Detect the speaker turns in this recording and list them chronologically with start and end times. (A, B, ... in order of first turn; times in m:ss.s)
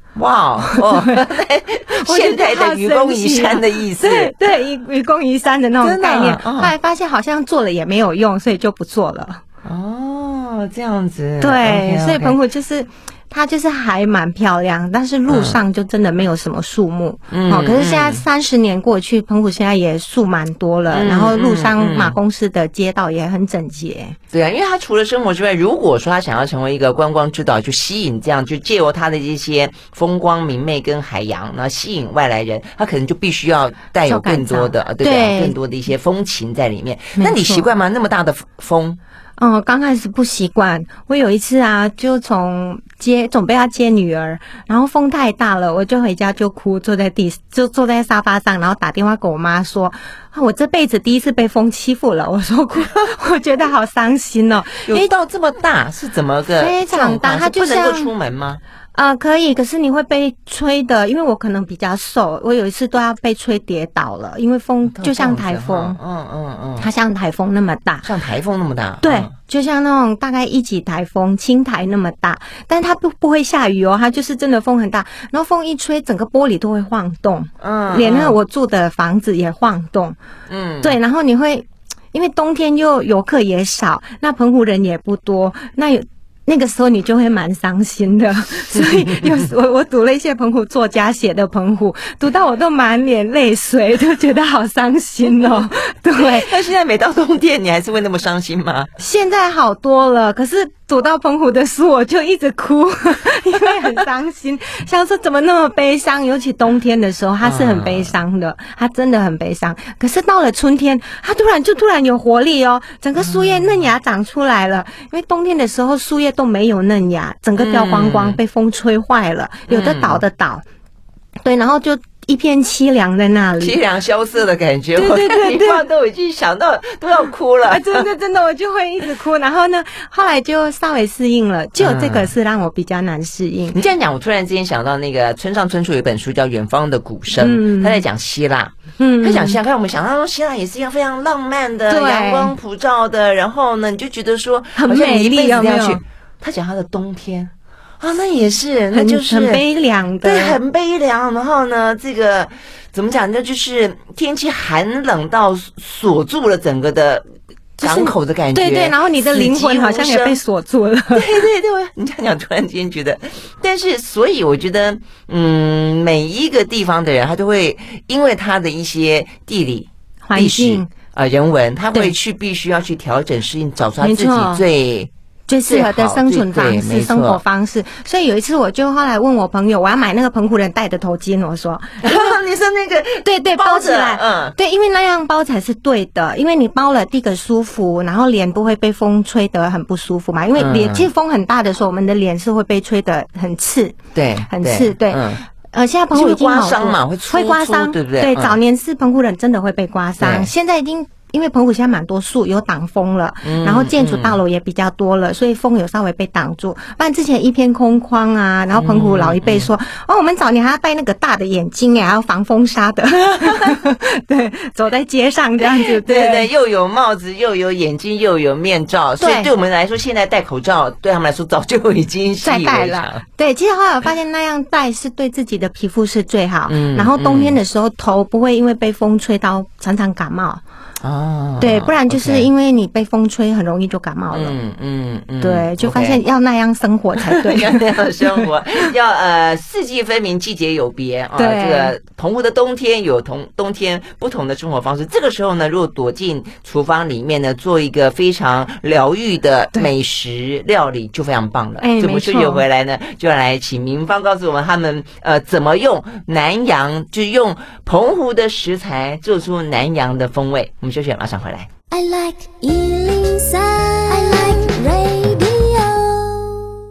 0:00.2-0:04.4 A
0:00.6-0:01.2 B
0:01.9-0:09.4 B
0:05.8-0:06.7 A
0:09.6-0:12.4 A
0:11.4-0:24.2 B
0:15.3-0:15.6 A
0:17.3-0:18.2 A
0:20.9-0:22.2 A
0:24.3-0:39.0 A
0:34.0-0:35.6 B
0:37.2-0:37.7 B
0:39.4-0:55.1 B
0:54.9-0:58.6 A
0:56.6-0:58.1 B
0:58.9-1:06.0 B
1:04.8-1:06.9 A
1:06.8-1:08.1 B
1:08.0-1:09.3 A
1:09.0-1:20.2 B
1:17.6-1:18.4 A
1:20.5-1:21.0 A
1:20.8-1:36.5 B
1:28.7-1:29.4 A
1:36.2-1:38.9 A
1:39.0-2:00.6 B
1:47.4-1:48.1 A
1:53.2-1:53.9 A
1:57.6-1:58.4 A
1:59.7-2:00.2 A
2:01.4-2:03.8 B
2:03.6-2:08.1 A
2:05.0-2:05.9 B
2:07.7-2:13.8 B
2:11.8-2:12.3 A
2:13.7-2:29.6 A
2:17.4-2:18.0 B
2:19.0-2:19.6 B
2:21.9-2:22.5 B
2:24.8-2:26.0 B
2:28.9-2:30.6 B
2:30.2-2:37.2 A
2:37.8-2:41.4 B
2:37.8-2:40.4 A
2:41.1-2:55.1 A
2:50.2-2:50.9 B
2:54.0-2:54.6 B
2:55.5-3:02.4 B
2:55.6-2:57.4 A
3:02.0-3:04.6 A
3:03.2-3:14.0 B
3:10.6-3:11.1 A
3:14.1-3:15.4 A
3:14.5-3:36.5 B
3:16.1-3:18.6 A
3:20.2-3:20.5 A
3:23.4-3:24.4 A
3:28.7-3:29.7 A
3:33.3-3:33.8 A
3:35.6-3:43.2 A
3:39.2-3:39.5 B
3:42.4-3:50.6 B
3:46.7-3:47.6 A
3:51.0-3:52.5 A
3:51.6-3:54.6 B
3:54.3-3:56.2 A
3:55.4-3:58.9 B
3:57.2-4:21.7 A
4:01.4-4:01.9 B
4:11.8-4:12.6 B
4:21.9-4:26.7 C